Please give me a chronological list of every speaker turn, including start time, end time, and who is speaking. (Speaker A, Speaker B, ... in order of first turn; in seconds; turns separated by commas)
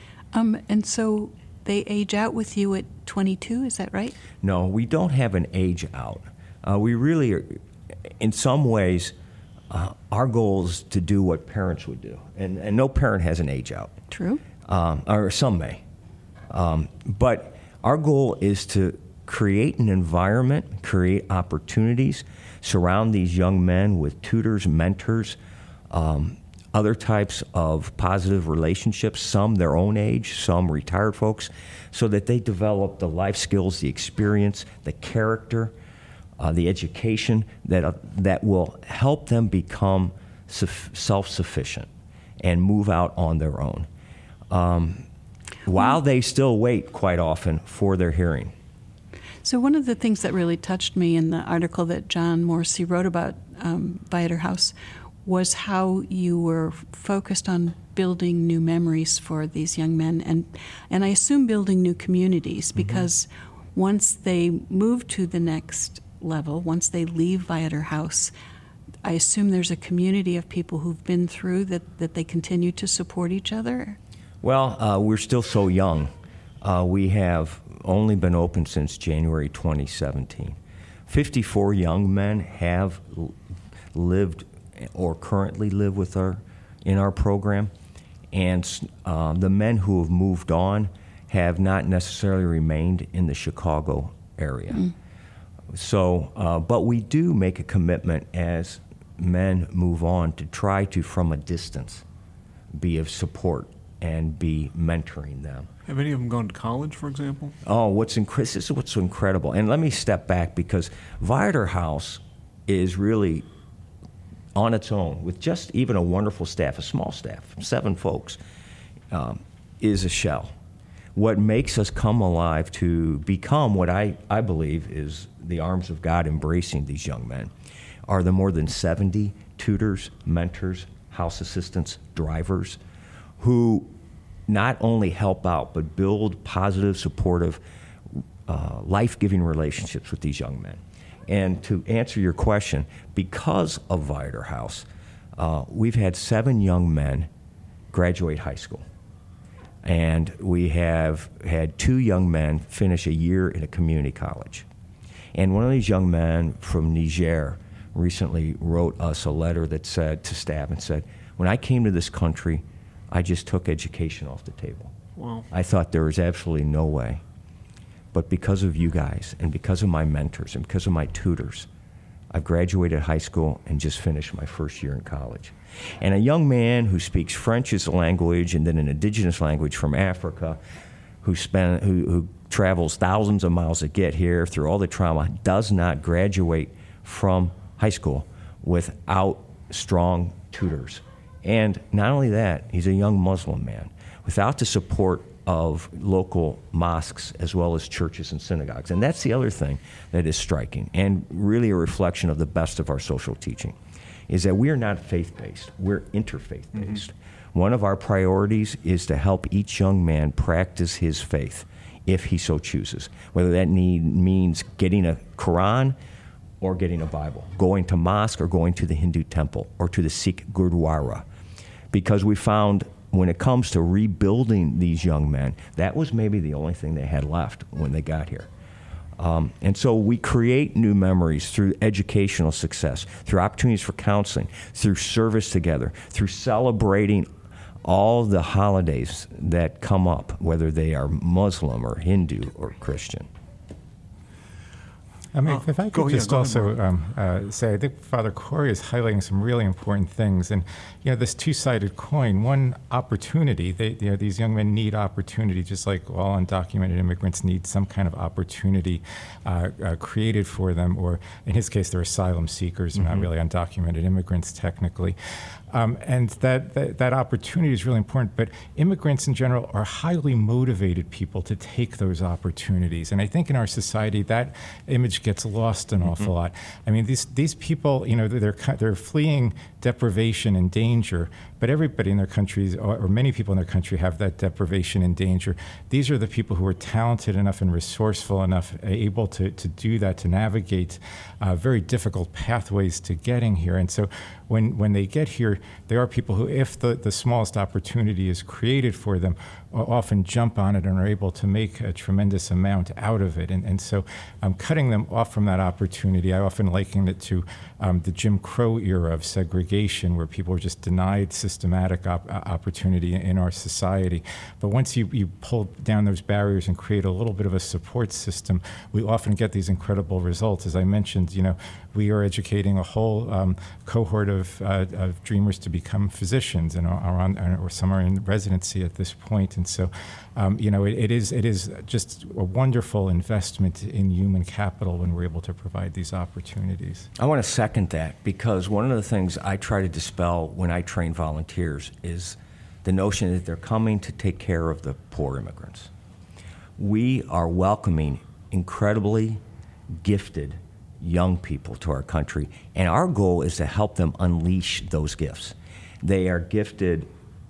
Speaker A: 0.3-4.2, Speaker B: 4.4-7.6, Speaker B: 8.2-9.1, Speaker B: 9.7-14.0, Speaker A: 14.1-14.4, Speaker B: 14.7-15.8, Speaker B: 16.5-25.4, Speaker B: 25.9-35.7, Speaker B: 36.4-41.9, Speaker B: 42.4-43.9, Speaker B: 44.5-45.1, Speaker B: 45.6-48.5, Speaker A: 49.4-68.3, Speaker A: 69.0-74.0, Speaker B: 74.4-80.6, Speaker B: 81.1-83.4, Speaker B: 83.9-87.7, Speaker B: 88.3-94.9, Speaker B: 95.7-102.0, Speaker B: 102.7-105.7, Speaker C: 105.9-107.6, Speaker B: 107.6-113.5, Speaker B: 114.5-118.4, Speaker B: 119.1-120.5, Speaker B: 121.2-127.5, Speaker B: 128.1-132.8, Speaker B: 133.4-133.9, Speaker B: 134.5-137.6, Speaker B: 138.5-147.3, Speaker B: 147.9-148.8, Speaker B: 149.8-154.7, Speaker B: 155.3-164.9, Speaker C: 165.2-165.5, Speaker B: 165.5-167.2, Speaker B: 168.1-171.7, Speaker B: 172.3-180.6, Speaker B: 181.2-203.8, Speaker B: 204.3-216.0, Speaker B: 216.6-221.3, Speaker B: 221.9-228.5, Speaker B: 229.2-237.3, Speaker B: 237.8-243.3, Speaker D: 245.3-265.2, Speaker C: 245.5-246.8, Speaker D: 265.7-337.1, Speaker B: 337.2-345.9, Speaker B: 346.8-349.4, Speaker B: 349.9-357.1